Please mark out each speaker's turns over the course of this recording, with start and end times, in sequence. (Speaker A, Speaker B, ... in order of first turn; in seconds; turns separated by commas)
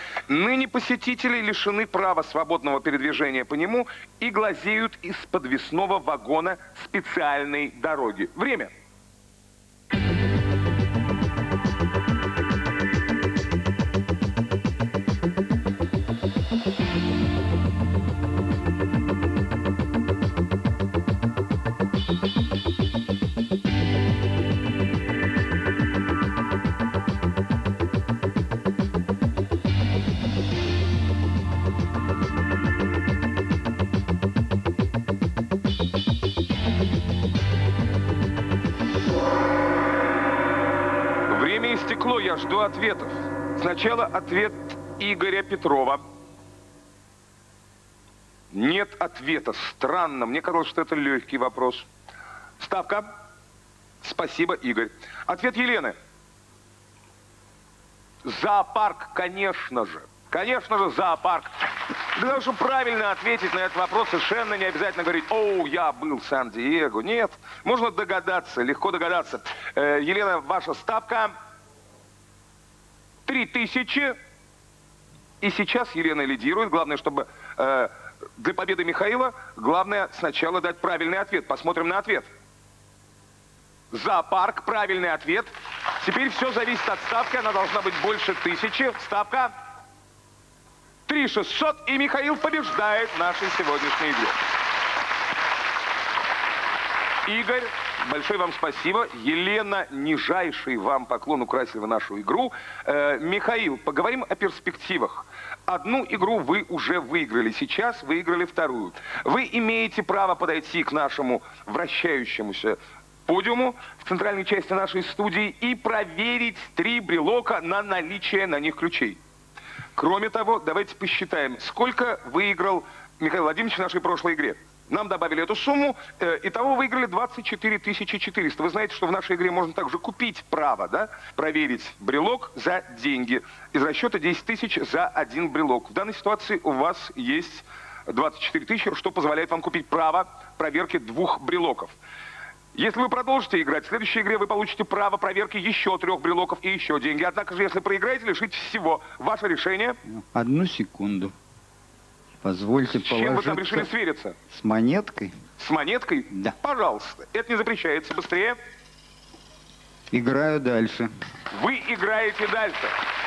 Speaker A: 0.3-8.7, Speaker A: 41.3-46.0, Speaker A: 48.5-51.9, Speaker A: 52.6-53.1, Speaker A: 54.0-56.0, Speaker A: 58.2-71.3, Speaker A: 73.3-74.2, Speaker A: 75.4-82.3, Speaker A: 83.9-89.5, Speaker A: 91.1-94.4, Speaker A: 97.2-119.2, Speaker A: 120.0-141.9, Speaker A: 142.8-150.0, Speaker B: 150.1-151.3, Speaker B: 152.4-153.9, Speaker A: 153.0-154.4, Speaker B: 154.5-155.3, Speaker A: 155.6-158.6, Speaker B: 160.1-161.1, Speaker A: 161.5-162.9